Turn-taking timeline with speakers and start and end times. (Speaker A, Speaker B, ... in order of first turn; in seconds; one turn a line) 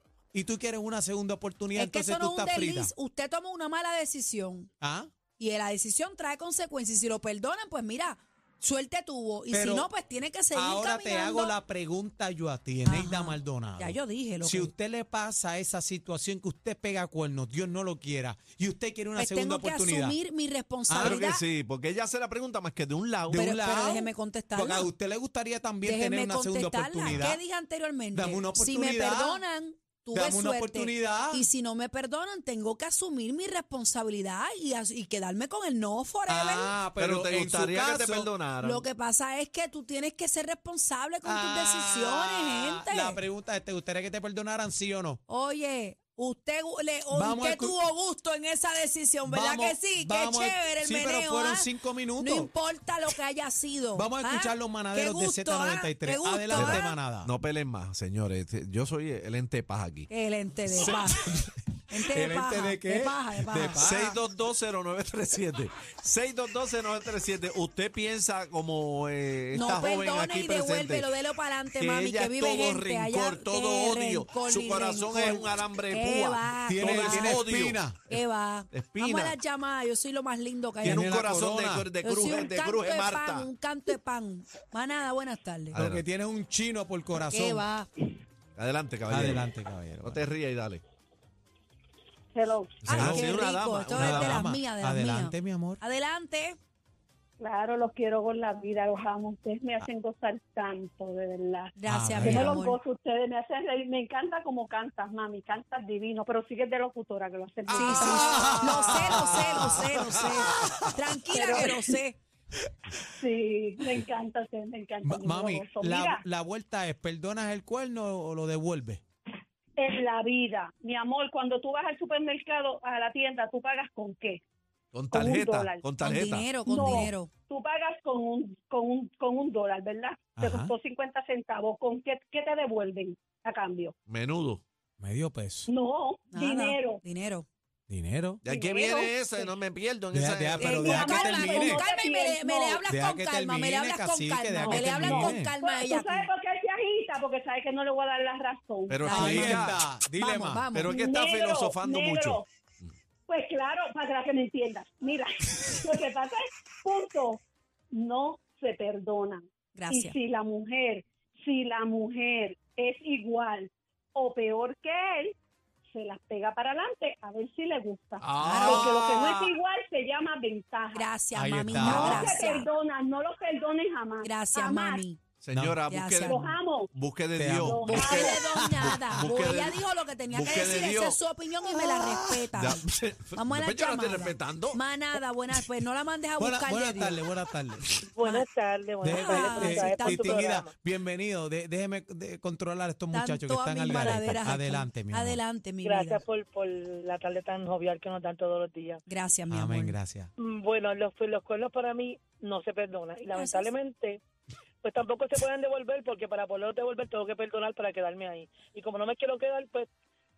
Speaker A: 0.3-2.9
Speaker B: 1.7-4.7
Speaker A: 4.8-5.1
Speaker B: 5.4-11.5
Speaker A: 9.5-9.9
Speaker A: 10.5-20.2
Speaker B: 12.8-14.7
Speaker B: 19.1-21.4
Speaker A: 20.9-21.2
Speaker C: 21.0-23.5
Speaker A: 23.3-27.4
Speaker B: 23.3-24.9
Speaker B: 25.8-36.7
Speaker A: 28.1-29.4
Speaker A: 30.1-31.5
Speaker A: 36.3-38.3
Speaker C: 37.0-38.8
Speaker B: 38.6-43.2
Speaker A: 41.2-45.2
Speaker B: 45.3-56.9
Speaker A: 47.1-47.8
Speaker A: 49.2-52.5
Speaker A: 53.9-57.3
Speaker C: 56.5-60.1
Speaker B: 60.1-61.3
Speaker A: 60.7-64.2
Speaker B: 61.9-63.8
Speaker C: 63.8-71.1
Speaker B: 69.5-77.4
Speaker C: 71.7-79.4
Speaker A: 76.7-78.0
Speaker B: 78.1-81.2
Speaker A: 80.8-81.9
Speaker C: 80.8-83.5
Speaker B: 82.0-85.8
Speaker A: 85.7-87.7
Speaker C: 85.7-86.0
Speaker B: 87.3-87.9
Speaker C: 88.5-89.5
Speaker A: 89.1-90.2
Speaker C: 90.0-90.8
Speaker D: 92.3-92.8
Speaker C: 92.8-94.5
Speaker A: 92.8-93.3
Speaker B: 92.9-96.6
Speaker A: 93.9-95.8
Speaker D: 97.4-108.7
Speaker B: 101.8-102.8
Speaker A: 101.9-102.6
Speaker B: 107.7-112.2
Speaker A: 107.8-110.7
Speaker C: 108.9-109.9
Speaker D: 111.3-112.0
Speaker D: 113.2-116.2
Speaker A: 115.0-119.0
Speaker D: 119.8-124.4
Speaker C: 124.9-126.6
Speaker D: 125.1-125.9
Speaker B: 126.0-127.3
Speaker D: 126.7-133.9
Speaker A: 130.4-130.7
Speaker C: 134.1-134.6
Speaker A: 135.0-135.7
Speaker D: 135.7-137.0
Speaker B: 136.3-137.5
Speaker A: 137.9-138.4
Speaker C: 138.4-141.1
Speaker D: 138.4-139.5
Speaker A: 140.1-141.8
Speaker D: 140.6-142.8
Speaker B: 140.8-146.3
Speaker A: 142.8-145.5
Speaker D: 144.6-149.6
Speaker C: 148.9-149.8
Speaker A: 149.1-150.7
Speaker B: 150.1-150.9
Speaker C: 150.7-152.9
Speaker D: 150.9-152.4
Speaker D: 153.3-157.4
Speaker D: 157.9-165.3
Speaker B: 159.7-160.2
Speaker D: 165.8-171.1
Speaker A: 168.2-169.4
Speaker B: 168.4-168.9
Speaker B: 170.9-172.7
Speaker A: 171.3-172.4
Speaker D: 171.8-175.0
Speaker B: 174.2-175.2
Speaker C: 175.4-181.2
Speaker A: 175.5-175.8
Speaker B: 175.9-176.5
Speaker D: 176.3-176.9
Speaker A: 177.3-179.2
Speaker D: 177.7-178.3
Speaker B: 178.0-182.8
Speaker A: 181.7-182.5
Speaker C: 182.6-184.8
Speaker B: 183.3-187.2
Speaker A: 186.4-187.8
Speaker E: 188.1-190.7
Speaker A: 189.0-195.4
Speaker B: 189.0-190.3
Speaker B: 193.1-196.2
Speaker E: 195.8-199.0
Speaker B: 199.1-200.0
Speaker A: 199.5-200.3
Speaker E: 200.4-204.2
Speaker B: 203.3-203.7
Speaker E: 204.8-209.9